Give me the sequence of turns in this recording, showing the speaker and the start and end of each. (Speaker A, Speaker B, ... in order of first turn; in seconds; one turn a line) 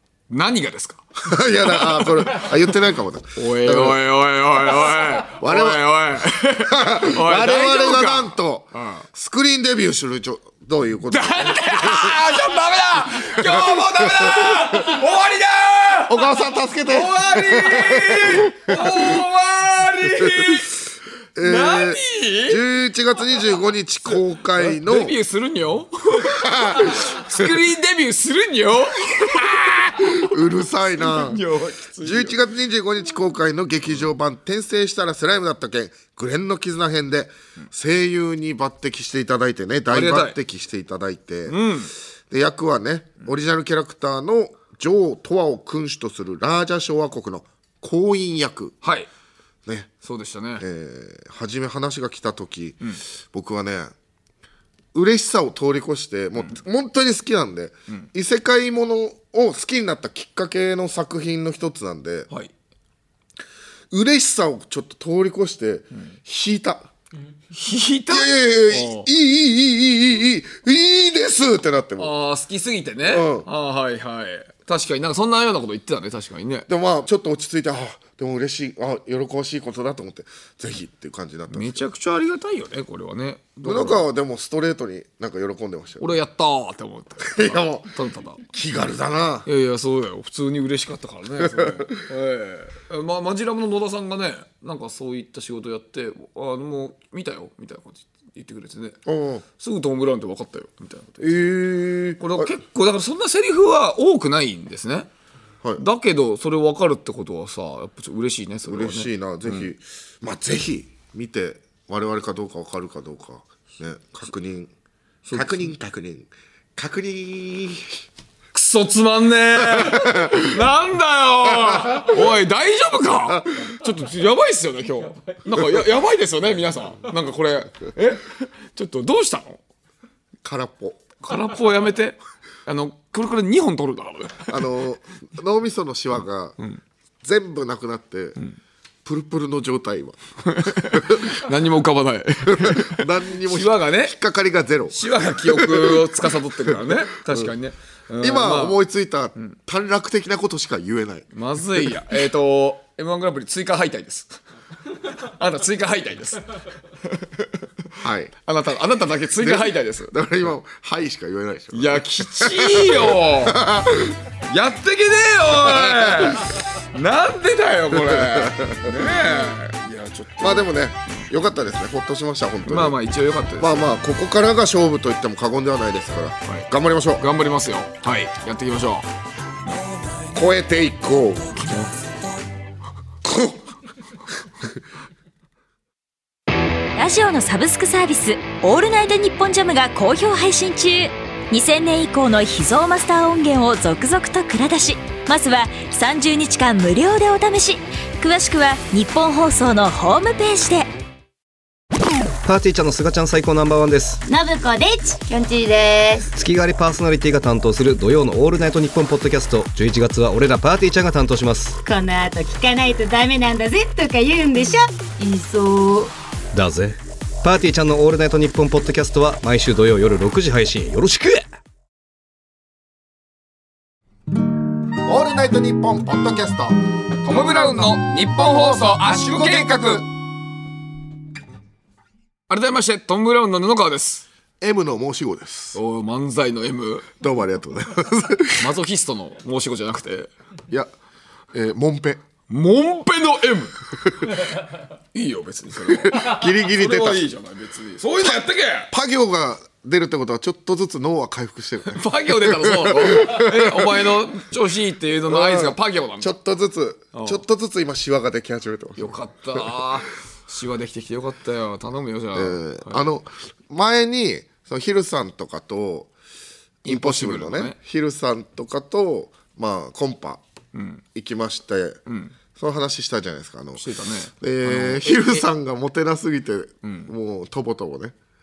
Speaker A: 0.3-1.0
Speaker B: 1.2-4.0
Speaker A: 1.7-2.6
Speaker A: 3.4-9.0
Speaker B: 5.3-5.9
Speaker B: 6.6-12.4
Speaker A: 11.1-16.2
Speaker B: 13.1-14.9
Speaker B: 16.1-19.2
Speaker A: 16.9-20.8
Speaker B: 20.2-20.6
Speaker B: 21.3-25.1
Speaker A: 21.4-22.6
Speaker A: 24.5-30.4
Speaker B: 26.2-27.5
Speaker B: 30.0-31.4
Speaker A: 30.9-32.4
Speaker B: 32.0-41.6
Speaker A: 39.9-40.4
Speaker A: 41.5-41.9
Speaker B: 42.3-48.8
Speaker A: 48.8-49.1
Speaker A: 50.0-50.6
Speaker B: 50.6-53.9
Speaker B: 54.9-62.3
Speaker B: 63.9-66.9
Speaker A: 67.5-69.1
Speaker B: 68.1-72.1
Speaker A: 72.0-76.7
Speaker B: 73.0-73.5
Speaker B: 76.7-81.8
Speaker A: 81.5-84.0
Speaker B: 83.6-86.2
Speaker A: 86.0-88.4
Speaker B: 87.2-87.9
Speaker B: 88.5-89.5
Speaker A: 89.5-99.0
Speaker B: 91.4-91.9
Speaker B: 99.0-99.4
Speaker A: 99.6-101.3
Speaker B: 101.2-102.5
Speaker A: 102.2-105.1
Speaker A: 105.8-109.7
Speaker B: 108.6-114.7
Speaker A: 115.2-115.7
Speaker B: 115.3-118.0
Speaker A: 118.5-129.6
Speaker B: 119.6-120.4
Speaker B: 121.6-122.1
Speaker B: 130.4-131.0
Speaker A: 131.2-134.6
Speaker B: 134.5-136.6
Speaker B: 137.2-138.4
Speaker B: 139.0-141.4
Speaker A: 140.5-144.2
Speaker B: 142.4-147.5
Speaker A: 144.9-148.8
Speaker B: 148.2-151.3
Speaker A: 151.3-154.3
Speaker A: 155.1-156.5
Speaker A: 157.1-157.4
Speaker B: 158.0-158.3
Speaker A: 158.4-160.1
Speaker B: 159.4-164.2
Speaker A: 161.7-163.6
Speaker A: 164.5-170.7
Speaker B: 165.5-166.5
Speaker B: 167.9-169.4
Speaker B: 170.4-173.0
Speaker A: 172.7-174.0
Speaker B: 173.6-177.2
Speaker A: 176.5-179.1
Speaker B: 180.3-181.7
Speaker A: 181.6-181.9
Speaker B: 183.2-183.6
Speaker C: 186.9-200.9
Speaker D: 202.4-204.2
Speaker E: 204.3-206.3
Speaker D: 206.3-211.8
Speaker E: 211.8-216.1
Speaker D: 216.5-221.5
Speaker B: 225.0-226.8
Speaker A: 227.2-230.0
Speaker B: 227.3-227.9
Speaker B: 229.0-230.0
Speaker A: 232.5-234.2
Speaker B: 234.6-235.8
Speaker A: 235.7-237.1
Speaker B: 237.2-238.7
Speaker A: 238.6-240.3
Speaker B: 241.5-242.2
Speaker A: 242.5-243.8
Speaker A: 245.1-248.9
Speaker B: 245.8-247.3
Speaker B: 248.2-254.1
Speaker A: 251.9-256.3
Speaker B: 255.2-259.7
Speaker A: 257.1-257.4
Speaker A: 259.0-263.0
Speaker B: 262.3-266.1
Speaker B: 266.8-270.4
Speaker A: 266.8-267.8
Speaker A: 270.7-271.0
Speaker B: 271.1-272.0
Speaker A: 272.1-272.3
Speaker B: 272.6-273.9
Speaker A: 273.8-275.4
Speaker B: 274.4-278.1
Speaker A: 276.8-277.1